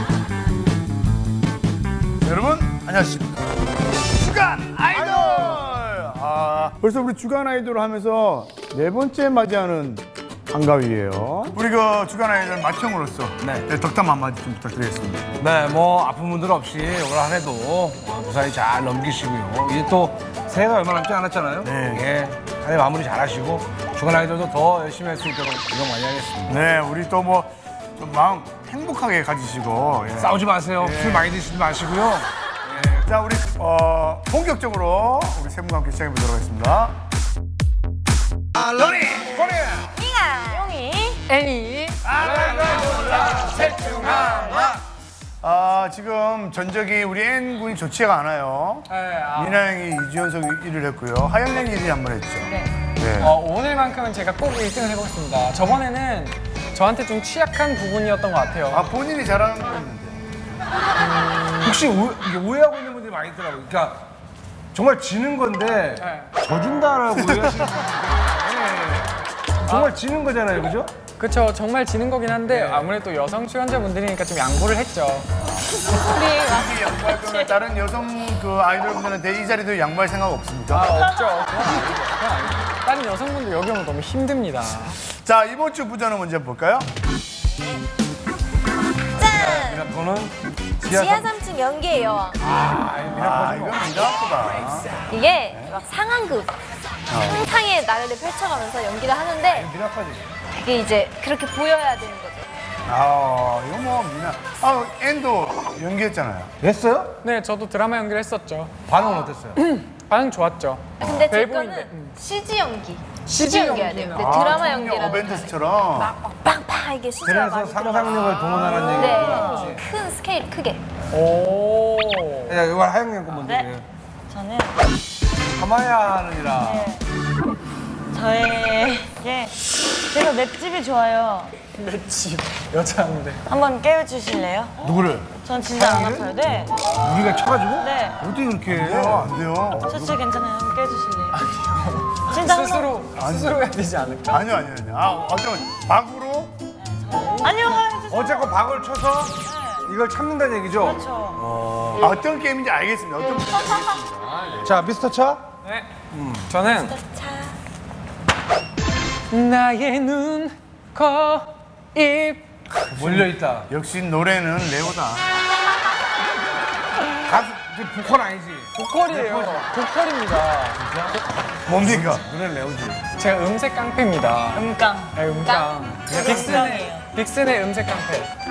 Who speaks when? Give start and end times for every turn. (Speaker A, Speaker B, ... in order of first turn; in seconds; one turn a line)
Speaker A: 2.2-3.4
Speaker A: 4.1-15.3
Speaker B: 4.9-5.7
Speaker B: 15.4-26.6
Speaker A: 21.6-22.1
Speaker A: 26.5-31.3
Speaker B: 30.2-33.1
Speaker A: 32.9-37.0
Speaker B: 38.6-40.0
Speaker C: 40.0-40.9
Speaker D: 40.5-41.2
Speaker E: 41.3-42.0
Speaker A: 42.0-44.8
Speaker B: 42.2-44.8
Speaker E: 43.0-44.5
Speaker A: 45.4-53.3
Speaker E: 48.9-49.6
Speaker D: 52.5-52.8
Speaker E: 53.2-58.9
Speaker A: 58.7-60.2
Speaker B: 61.6-64.0
Speaker B: 64.7-69.1
Speaker E: 66.0-66.3
Speaker B: 69.6-70.9
Speaker E: 69.7-70.0
Speaker E: 71.2-75.3
Speaker B: 72.4-72.9
Speaker C: 75.9-77.6
Speaker A: 76.3-80.9
Speaker E: 80.7-85.0
Speaker A: 85.1-86.9
Speaker C: 89.2-89.8
Speaker B: 89.2-91.3
Speaker C: 90.8-92.4
Speaker B: 92.4-93.9
Speaker A: 93.1-95.8
Speaker C: 95.1-96.5
Speaker A: 97.1-97.5
Speaker C: 97.3-99.7
Speaker B: 99.4-100.3
Speaker C: 100.5-102.5
Speaker A: 102.9-106.5
Speaker B: 106.6-107.1
Speaker E: 107.2-108.7
Speaker B: 108.9-109.6
Speaker E: 109.6-112.2
Speaker C: 111.0-120.8
Speaker E: 113.3-114.6
Speaker A: 114.2-116.2
Speaker B: 117.2-119.9
Speaker D: 118.8-119.7
Speaker E: 121.1-122.6
Speaker B: 122.5-123.8
Speaker D: 123.4-123.8
Speaker D: 124.3-124.8
Speaker B: 125.5-126.9
Speaker D: 126.5-127.0
Speaker D: 128.1-131.5
Speaker E: 131.7-133.4
Speaker D: 133.5-134.8
Speaker A: 134.8-135.3
Speaker D: 135.4-136.8
Speaker B: 135.8-136.3
Speaker B: 136.9-139.3
Speaker D: 137.7-138.2
Speaker A: 138.7-140.0
Speaker D: 139.9-141.4
Speaker E: 141.3-144.4
Speaker D: 142.3-143.0
Speaker A: 143.1-143.6
Speaker A: 144.3-146.5
Speaker D: 146.8-148.7
Speaker B: 148.1-152.1
Speaker D: 149.2-149.9
Speaker D: 150.8-151.4
Speaker A: 152.0-154.8
Speaker B: 154.6-155.5
Speaker E: 155.6-155.9
Speaker B: 156.1-156.5
Speaker E: 156.5-157.0
Speaker C: 156.8-157.5
Speaker E: 159.3-162.4
Speaker A: 162.9-165.2
Speaker B: 162.9-163.7
Speaker B: 167.2-169.7
Speaker E: 168.8-170.8
Speaker B: 170.8-171.2
Speaker A: 171.7-172.2
Speaker B: 171.8-173.0
Speaker E: 173.2-178.3
Speaker D: 174.5-177.1